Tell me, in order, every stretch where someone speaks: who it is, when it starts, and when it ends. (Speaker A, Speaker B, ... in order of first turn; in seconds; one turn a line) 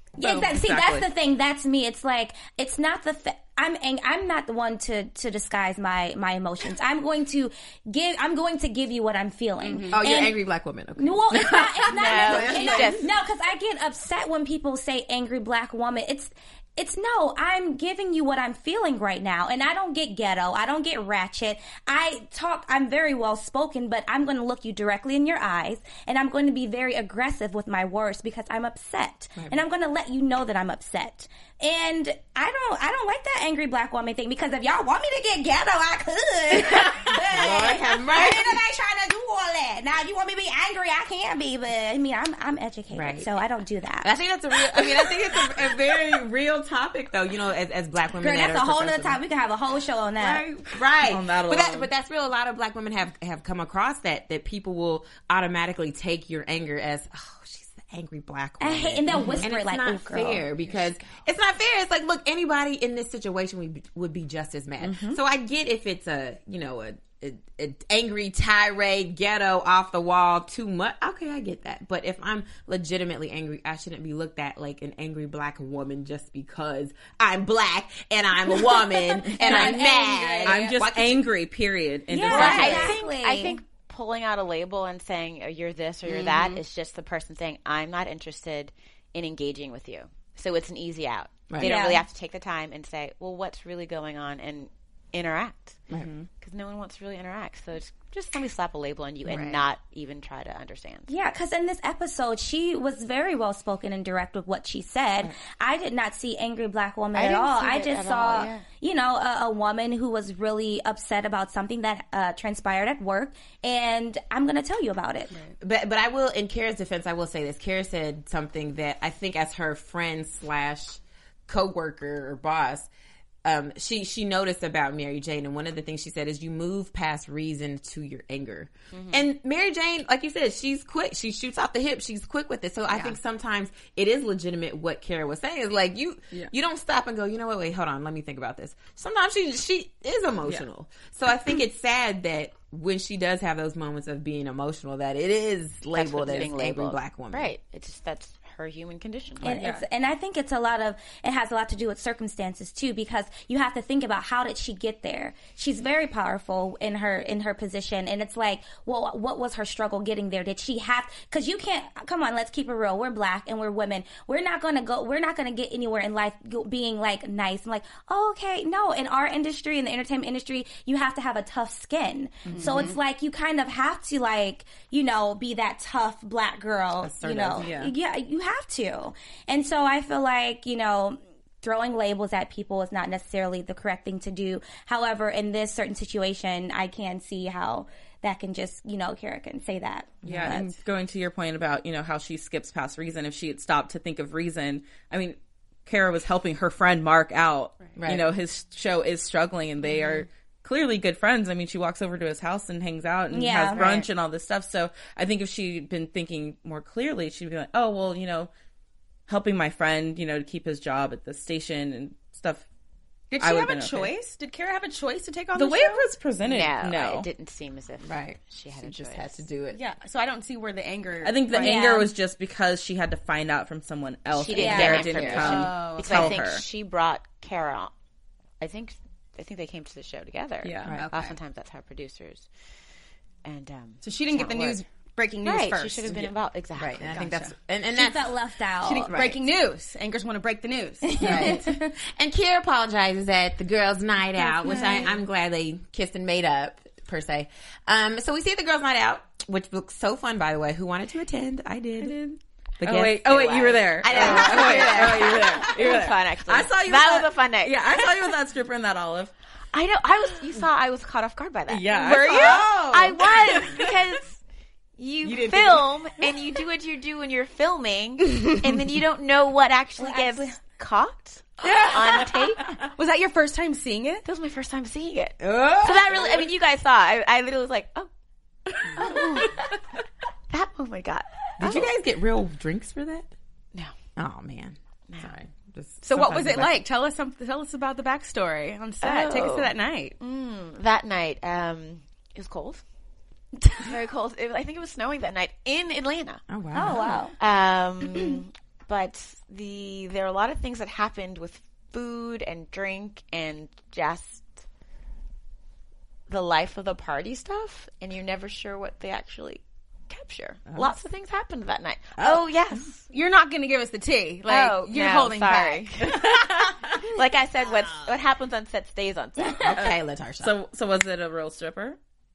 Speaker A: 0.2-10.4
Speaker B: 0.2-0.5
Speaker C: 0.4-1.1
Speaker B: 9.6-10.0
Speaker D: 9.9-13.1
Speaker A: 11.0-44.2
Speaker E: 11.9-13.1
Speaker D: 36.8-38.6
Speaker D: 42.9-43.3
Speaker D: 44.0-49.2
Speaker A: 48.2-50.5
Speaker D: 50.2-81.3
Speaker C: 51.0-51.9
Speaker A: 58.6-60.5
Speaker C: 59.1-59.4
Speaker C: 64.8-65.2
Speaker C: 79.3-79.9
Speaker B: 79.3-80.7
Speaker C: 80.4-82.9
Speaker A: 82.1-83.6
Speaker D: 82.3-83.0
Speaker E: 82.3-95.8
Speaker D: 91.5-91.8
Speaker A: 91.6-92.0
Speaker C: 96.0-96.3
Speaker E: 96.4-101.1
Speaker B: 99.3-99.7
Speaker A: 101.1-115.3
Speaker E: 107.1-108.6
Speaker D: 115.6-122.9
Speaker D: 123.5-147.5
Speaker E: 128.9-129.2
Speaker E: 145.9-149.6
Speaker C: 146.2-146.5
Speaker A: 149.4-190.7
Speaker C: 149.6-149.8
Speaker C: 172.4-172.9
Speaker B: 172.5-173.0
Speaker D: 177.0-177.7
Speaker C: 177.6-177.9
Speaker D: 190.2-190.8
Speaker C: 190.2-208.5
Speaker D: 198.0-198.3
Speaker A: 203.3-203.8
Speaker D: 203.8-204.1
Speaker C: 209.3-212.7
Speaker B: 213.3-216.1
Speaker C: 213.4-214.1
Speaker C: 215.5-217.3
Speaker E: 216.4-219.4
Speaker D: 218.0-219.8
Speaker B: 219.7-221.8
Speaker C: 221.2-226.6
Speaker A: 221.6-222.1
Speaker E: 224.3-227.9
Speaker A: 224.5-225.1
Speaker D: 224.9-225.7
Speaker B: 225.2-226.4
Speaker E: 228.6-232.5
Speaker C: 230.6-231.0
Speaker B: 230.9-231.4
Speaker E: 233.4-234.8
Speaker B: 234.0-236.1
Speaker E: 235.4-237.2
Speaker D: 236.8-238.4
Speaker B: 237.0-237.5
Speaker A: 237.9-239.1
Speaker B: 238.8-241.6
Speaker D: 239.1-239.4
Speaker A: 241.1-241.9
Speaker D: 241.2-252.2
Speaker B: 244.4-245.2
Speaker C: 252.0-259.3
Speaker D: 252.8-253.5
Speaker E: 253.3-258.3
Speaker D: 254.0-256.0
Speaker E: 259.7-264.4
Speaker C: 261.7-263.9
Speaker D: 262.2-263.2
Speaker E: 265.0-272.8
Speaker D: 265.2-266.1
Speaker A: 270.0-270.6
Speaker B: 271.6-272.2
Speaker B: 272.9-274.2
Speaker E: 274.2-278.1
Speaker D: 275.4-276.5
Speaker E: 278.8-279.7
Speaker B: 279.0-279.4
Speaker E: 280.5-281.9
Speaker D: 281.6-283.3
Speaker D: 284.2-286.8
Speaker E: 285.1-285.4
Speaker B: 286.0-290.1
Speaker E: 289.0-292.8
Speaker E: 293.8-296.4
Speaker D: 296.5-297.2
Speaker A: 296.7-297.4
Speaker E: 297.4-304.5
Speaker E: 306.3-313.1
Speaker D: 310.7-311.0
Speaker D: 312.2-312.5
Speaker B: 313.1-315.9
Speaker E: 314.5-319.9
Speaker D: 317.7-318.1
Speaker D: 319.6-320.5
Speaker C: 319.7-322.0